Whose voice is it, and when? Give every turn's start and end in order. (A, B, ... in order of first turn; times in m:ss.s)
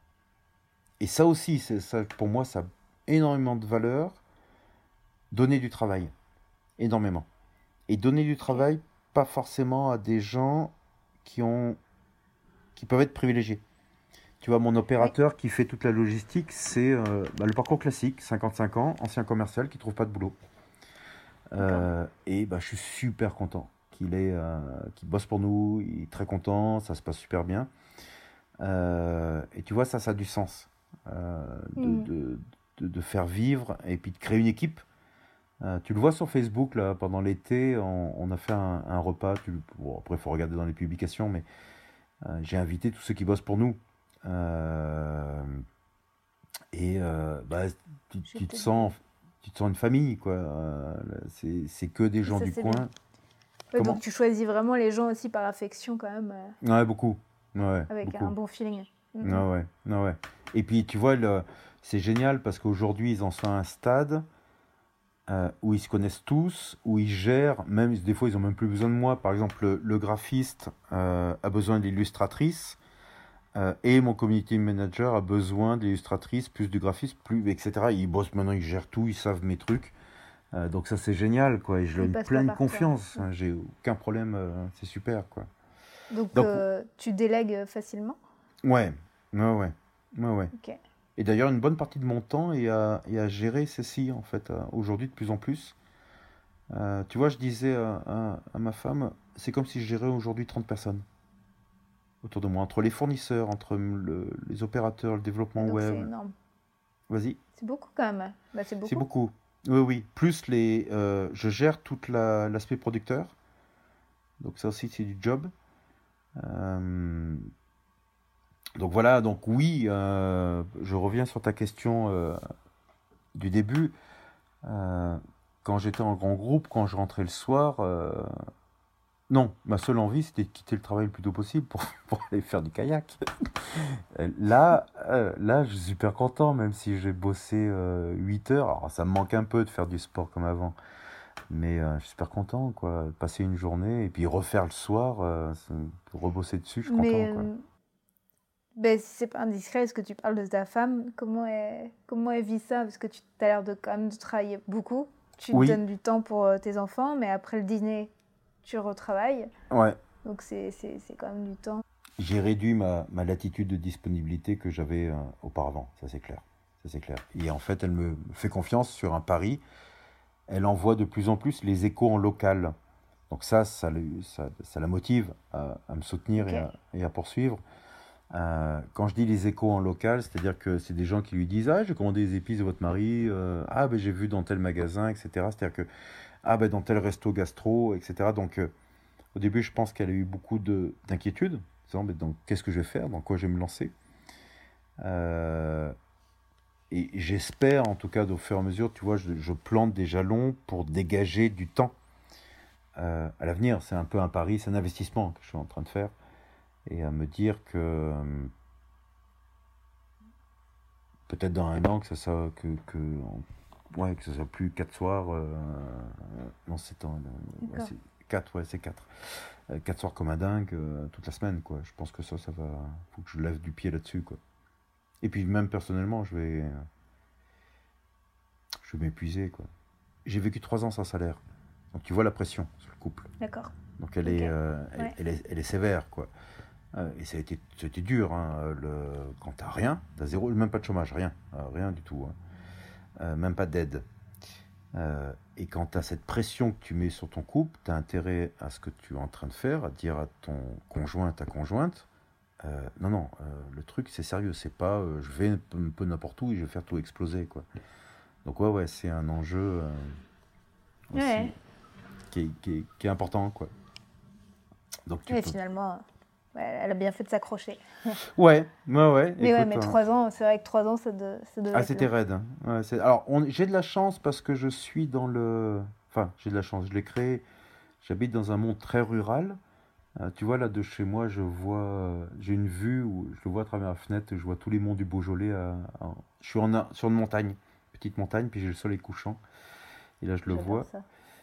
0:01.0-0:04.2 A
0:05.3-0:06.1 A
0:06.8-0:07.3 A
0:07.9-0:11.8 A
0:12.8-0:13.6 A
0:14.4-0:20.4 A
0:21.5-0:27.7 A
0:21.6-0:21.8 B
0:28.6-0:34.8 A
0:31.8-0:32.1 B
0:35.6-0:41.4 A
0:42.2-0:45.6 A
0:46.7-0:52.9 A
0:48.3-0:48.9 B
0:52.2-0:52.8 B
0:53.7-0:56.6 B
0:53.8-0:54.0 A
0:56.6-0:58.3 A
0:57.9-0:59.5 B
0:59.2-1:04.2 A
1:05.3-1:12.8 A
1:13.5-1:19.9 A
1:20.5-1:25.5 A
1:22.0-1:23.2 B
1:26.1-1:28.2 B
1:26.3-1:26.6 A
1:28.6-1:30.5 A
1:30.5-1:30.8 B
1:31.2-1:35.8 A
1:36.7-1:41.0 A
1:42.2-1:46.1 A
1:45.6-1:46.3 B
1:47.1-1:47.4 A
1:47.6-1:49.0 B
1:48.8-1:53.3 A
1:54.4-1:55.5 A
1:56.4-1:57.5 A
1:58.8-2:02.4 A
2:03.3-2:03.9 A
2:04.6-2:08.3 A
2:09.3-2:20.8 A
2:21.5-2:27.5 A
2:26.8-2:27.6 B
2:28.8-2:38.1 B
2:35.5-2:35.8 A
2:38.6-2:39.5 B
2:39.7-2:40.0 A
2:40.2-2:41.8 B
2:42.2-2:49.6 A
2:50.5-2:52.7 A
2:53.3-2:57.6 A
2:56.4-2:56.7 B
2:58.3-3:05.9 A
3:06.4-3:08.7 A
3:09.3-3:13.9 A
3:15.0-3:16.0 A
3:16.9-3:21.9 A
3:23.0-3:26.1 A
3:26.9-3:28.5 A
3:31.3-3:33.4 A
3:33.9-3:44.4 A
3:37.6-3:37.9 B
3:45.2-3:46.8 A
3:48.8-3:49.7 A
3:50.2-3:51.4 A
3:51.9-3:53.3 A
3:53.4-3:53.7 B
3:54.0-3:56.3 A
3:54.2-3:55.1 B
3:56.9-4:02.3 A
4:03.2-4:04.0 A
4:04.9-4:12.1 A
4:12.6-4:17.6 A
4:18.4-4:20.2 A
4:21.1-4:21.5 A
4:21.1-4:21.5 B
4:22.3-4:23.7 A
4:25.1-4:25.6 A
4:25.3-4:28.1 B
4:28.2-4:30.0 A
4:29.4-4:32.1 B
4:31.7-4:37.4 A
4:38.0-4:39.6 A
4:40.2-4:49.4 A
4:50.2-4:50.9 A
4:50.5-4:51.0 B